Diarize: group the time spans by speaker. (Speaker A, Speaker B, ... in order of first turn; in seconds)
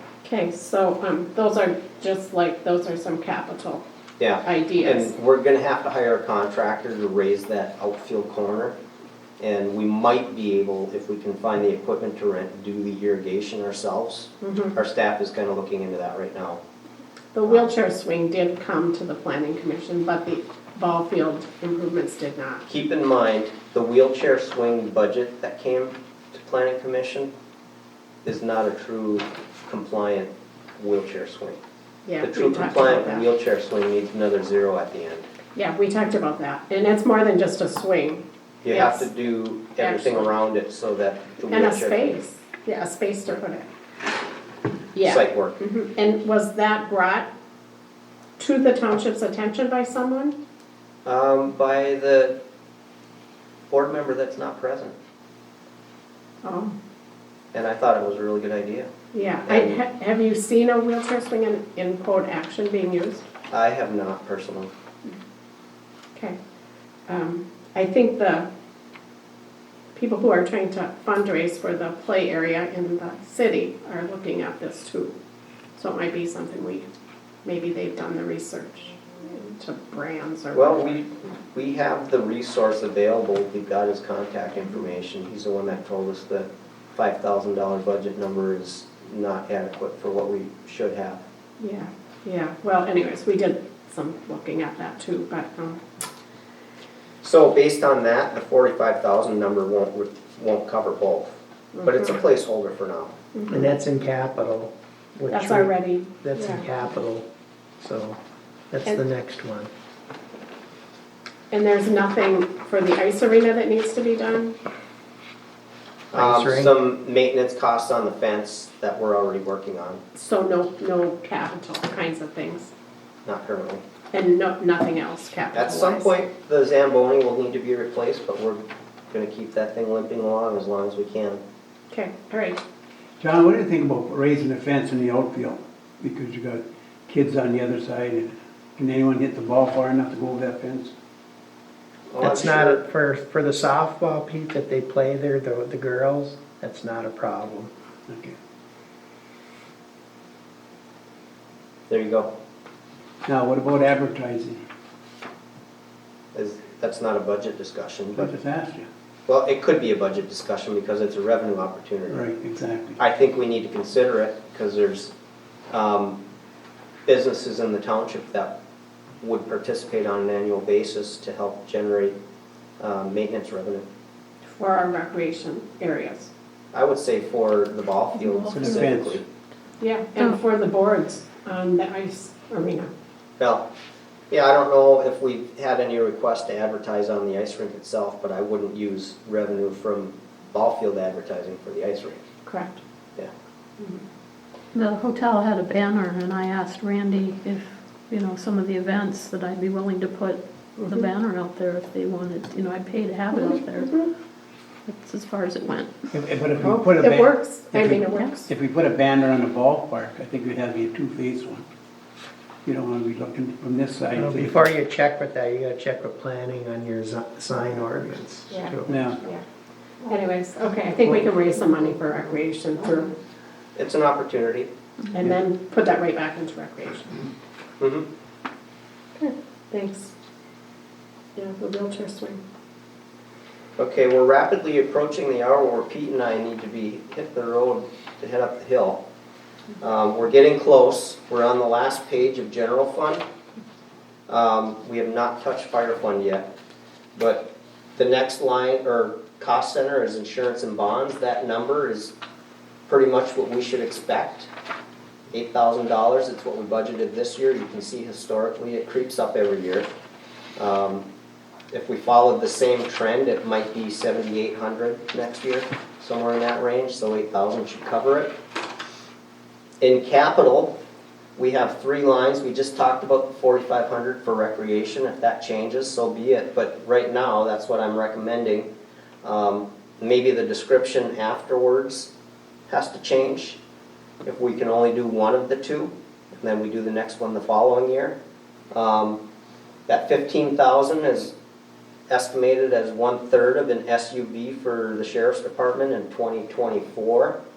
Speaker A: 0.2-3.8, 4.5-5.1, 14.4-14.7, 17.3-22.6, 32.0-33.3, 35.5-39.1, 39.8-40.3, 41.5-43.7, 44.9-47.3, 48.4-50.4, 56.4-56.8, 59.1-63.3, 67.1-68.5, 69.9-75.1, 75.8-76.9, 77.4-81.0, 91.6-95.8, 101.7-102.2, 103.3-103.7, 105.3-106.7, 111.5-114.6, 120.1-122.7, 124.1-126.1, 131.9-132.6, 174.5-176.3, 179.8-182.9, 192.4-192.8, 206.6-208.5, 218.5-219.4, 220.1-223.1, 225.1-227.2, 229.2-230.1, 231.3-232.4
Speaker B: 4.2-8.8, 9.4-16.6, 17.4-17.7, 22.6-27.3, 28.2-31.6, 32.2-35.3, 38.6-42.2, 45.0-45.5, 51.0-52.4, 53.7-54.9, 57.5-58.9, 59.5-59.8, 63.5-64.7, 80.5-91.2, 97.2-101.3, 101.8-103.1, 116.1-120.0, 123.2-123.8, 125.5-131.4, 142.1-142.8, 151.9-152.3, 156.3-158.3, 159.3-162.3, 163.0-165.1, 165.7-166.2, 167.1-168.5, 169.2-172.2, 172.8-173.8, 176.7-179.2, 183.4-183.6, 184.3-192.2, 223.8-224.7, 227.8-228.1, 233.8-239.0, 239.8-243.2, 244.3-246.5, 247.1-252.1, 252.9-254.5, 255.3-259.9, 260.6-261.1, 261.7-268.3, 269.8-270.7, 271.4-278.7, 279.2-282.1, 282.7-283.6, 284.2-288.1, 288.7-289.2, 289.9-291.3, 292.1-297.4
Speaker C: 103.5-107.2, 107.8-108.2, 108.7-109.7, 116.1-116.7, 142.2-147.7, 214.1-219.0
Speaker D: 133.2-140.9, 148.1-148.3, 153.2-154.6, 158.2-158.9, 162.1-163.0, 178.5-179.2, 206.1-211.6, 212.6-214.7, 218.8-219.2
Speaker E: 178.1-178.9, 194.7-204.1, 204.8-205.9